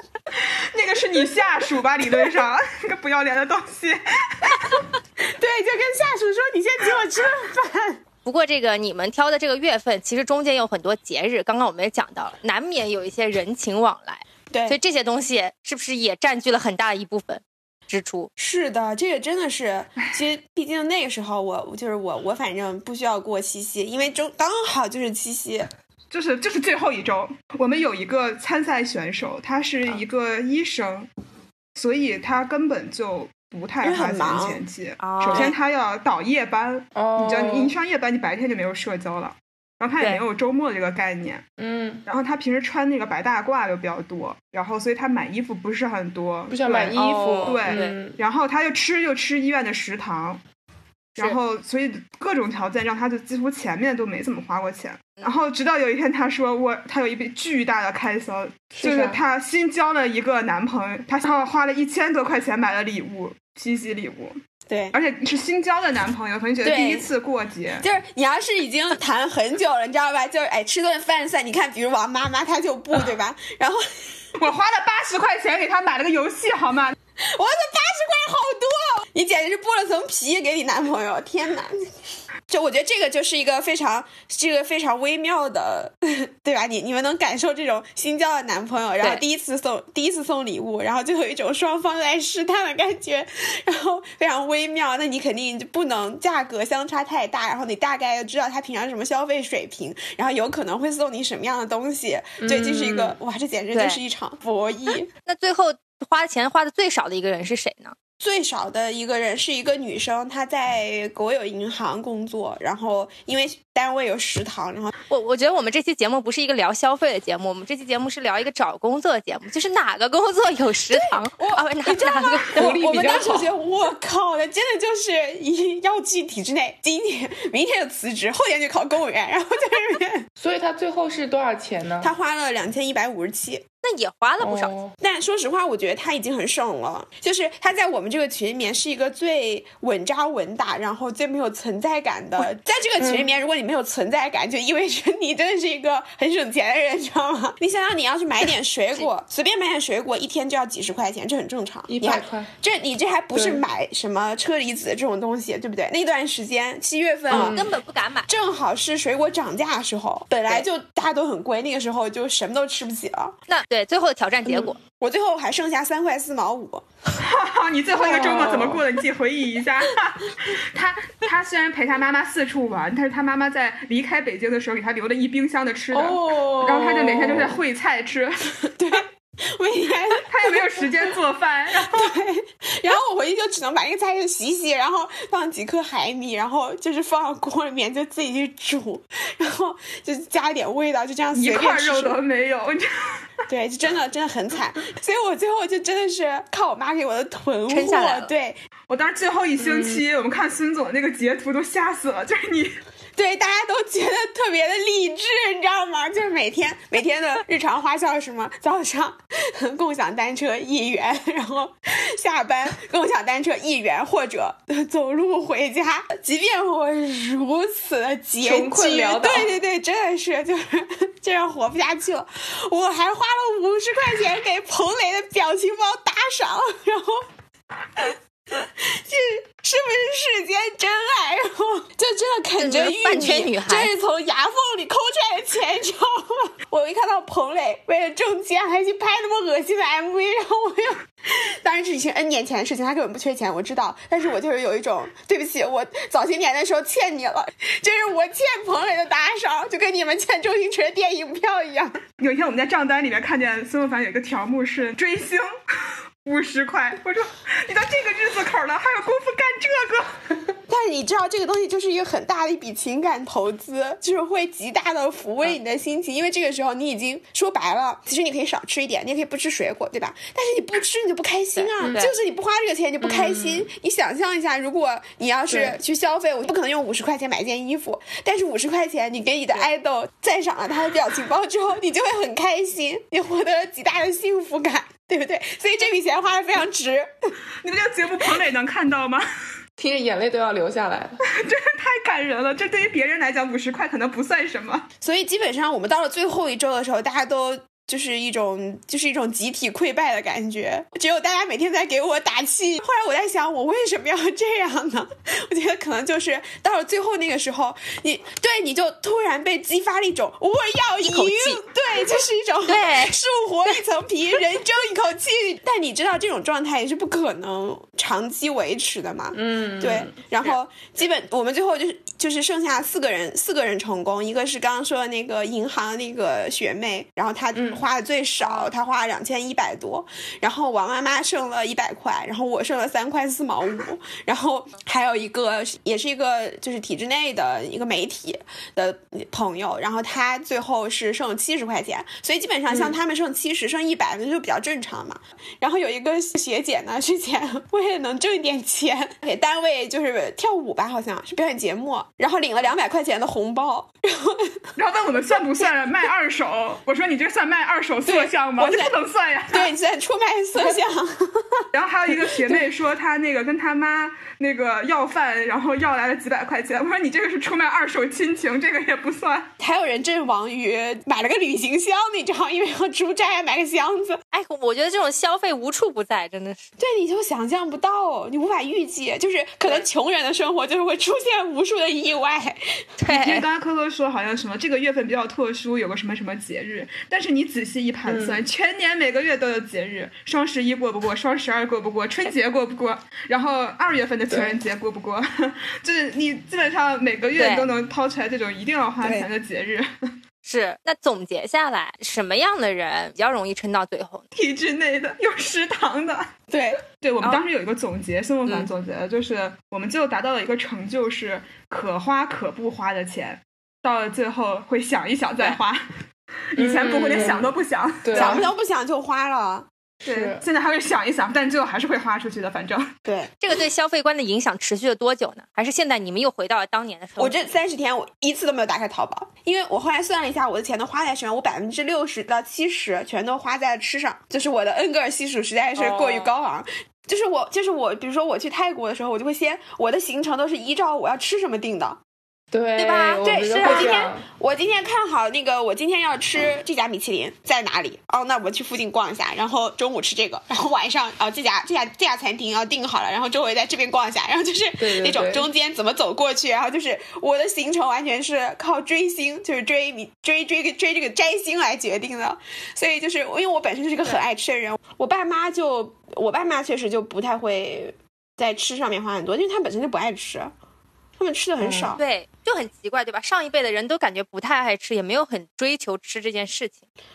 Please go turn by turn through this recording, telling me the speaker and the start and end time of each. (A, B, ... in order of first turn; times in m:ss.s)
0:00.3-0:04.8 A
0:05.2-0:08.0 B
0:08.2-0:18.3 C
0:14.5-0:14.8 B
0:18.4-0:25.7 B
0:26.1-0:31.1 A
0:31.8-0:41.4 A
0:33.8-0:34.6 B
0:35.0-0:35.5 C
0:37.0-0:37.7 D
0:41.6-0:42.0 D
0:42.1-0:50.4 A
0:46.5-0:48.2 D
0:47.0-0:48.0 C
0:51.2-1:04.4 A
0:58.8-0:59.2 D
1:04.7-1:05.0 B
1:04.9-1:07.9 A
1:06.6-1:07.1 B
1:07.8-1:13.8 B
1:14.4-1:17.0 A
1:17.2-1:21.9 B
1:22.5-1:45.1 B
1:42.4-1:43.2 D
1:43.7-1:44.0 C
1:45.2-1:48.0 C
1:48.2-1:54.9 B
1:55.1-2:03.1 C
2:00.9-2:10.3 B
2:02.6-2:03.5 D
2:10.4-2:12.1 D
2:12.0-2:13.6 B
2:13.8-2:14.7 C
2:14.4-2:15.0 D
2:15.0-2:37.7 B
2:23.0-2:23.3 D
2:31.9-2:32.5 D
2:33.3-2:33.6 D
2:37.3-2:38.3 C
2:37.3-2:37.6 D
2:38.3-2:43.4 B
2:43.5-2:44.8 C
2:44.5-2:46.8 B
2:47.2-2:58.6 A
2:48.0-2:48.8 D
2:56.0-2:56.7 B
2:56.0-2:57.5 D
2:58.8-3:00.9 B
3:00.3-3:02.1 A
3:01.7-3:12.2 B
3:11.3-3:13.2 A
3:13.5-3:18.6 B
3:17.7-3:18.3 C
3:18.9-3:22.8 A
3:19.6-3:20.0 D
3:23.2-3:47.3 B
3:38.4-3:39.6 D
3:48.0-4:12.0 B
3:52.6-3:53.9 C
4:12.2-4:15.5 A
4:16.2-4:20.2 A
4:20.7-4:47.1 B
4:31.6-4:32.2 C
4:31.8-4:32.0 D
4:33.0-4:33.7 D
4:35.5-4:35.8 D
4:47.6-4:49.2 A
4:49.8-4:51.2 D
4:51.3-4:54.9 A
4:55.0-5:54.7 B
5:11.0-5:11.6 C
5:12.7-5:13.2 C
5:19.3-5:20.1 D
5:27.5-5:27.8 D
5:28.4-5:28.7 C
5:42.7-5:43.0 D
5:54.8-5:59.7 A
5:58.0-5:58.9 B
5:59.5-6:02.6 B
6:01.7-6:09.5 A
6:09.6-6:14.2 B
6:14.3-6:16.7 C
6:16.8-6:22.8 B
6:23.0-6:23.4 C
6:23.1-6:39.9 A
6:28.1-6:28.4 D
6:34.3-6:34.6 D
6:37.4-6:37.7 C
6:39.0-6:39.3 B
6:40.4-6:44.2 C
6:44.4-6:46.3 A
6:46.5-6:46.8 B
6:46.9-6:55.9 A
6:56.6-6:58.5 A
6:56.6-6:58.5 D
6:58.1-6:59.7 B
7:00.0-7:00.4 D
7:00.0-7:02.9 A
7:03.4-7:07.5 C
7:07.2-7:22.0 B
7:15.8-7:16.3 C
7:22.5-7:24.3 D
7:22.8-7:24.1 C
7:23.2-7:50.5 B
7:34.8-7:35.5 D
7:51.2-7:52.0 B
7:51.6-7:52.0 D
7:52.0-7:56.8 C